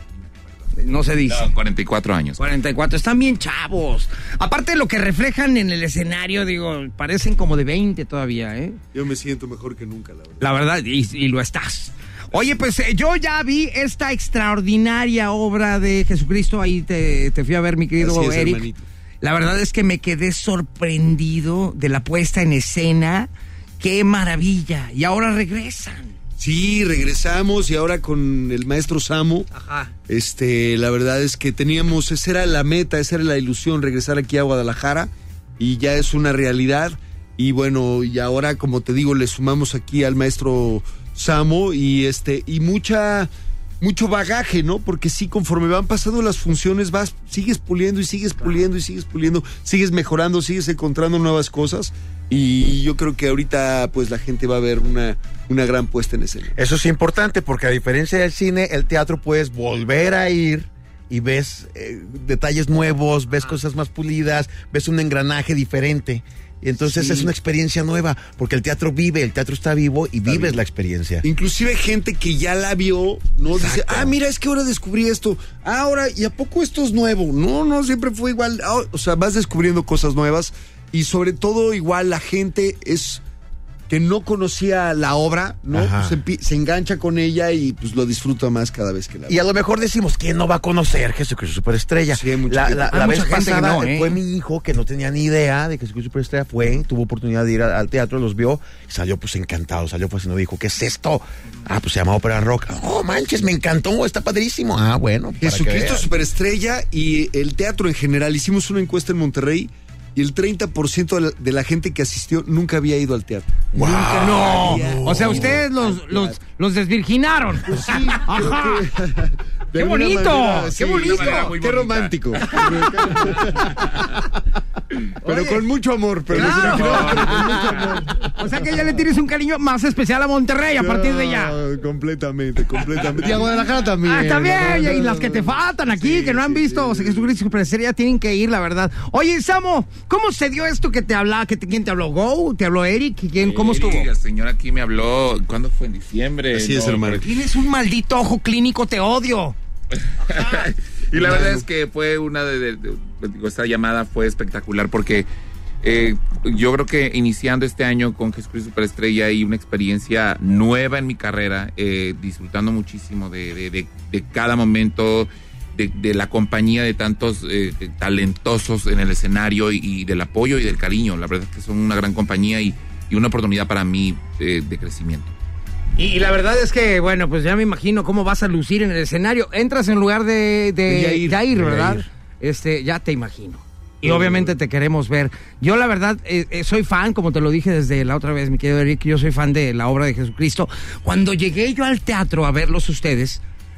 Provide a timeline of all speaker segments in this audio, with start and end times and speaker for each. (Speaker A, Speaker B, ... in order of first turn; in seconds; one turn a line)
Speaker A: 0.8-1.5
Speaker B: 1.3-2.4
Speaker A: 2.4-8.8
Speaker C: 8.9-10.5
Speaker A: 10.4-18.6
Speaker C: 18.0-18.8
Speaker A: 19.2-26.1
Speaker C: 26.4-29.5
Speaker A: 29.5-29.9
Speaker C: 30.1-43.3
Speaker C: 43.8-56.5
Speaker D: 56.5-71.2
Speaker C: 70.3-70.6
Speaker C: 71.2-83.2
Speaker D: 73.5-74.1
Speaker C: 83.9-89.4
Speaker D: 85.7-86.2
Speaker D: 89.3-106.1
Speaker C: 92.1-93.0
Speaker A: 92.9-94.2
Speaker C: 105.4-116.3
Speaker D: 113.7-115.6
Speaker A: 114.1-118.8
Speaker C: 117.6-124.2
Speaker A: 119.8-121.5
Speaker B: 121.0-124.0
Speaker C: 125.2-128.8
Speaker A: 125.2-125.6
Speaker A: 126.3-127.8
Speaker B: 126.4-128.0
Speaker A: 128.3-131.6
Speaker C: 130.8-137.4
Speaker A: 134.0-144.1
Speaker B: 143.4-147.2
Speaker C: 146.5-147.4
Speaker A: 147.2-149.6
Speaker B: 150.1-155.3
Speaker C: 151.2-151.6
Speaker B: 155.8-175.3
Speaker A: 176.0-193.4
Speaker C: 180.9-182.0
Speaker C: 184.0-184.5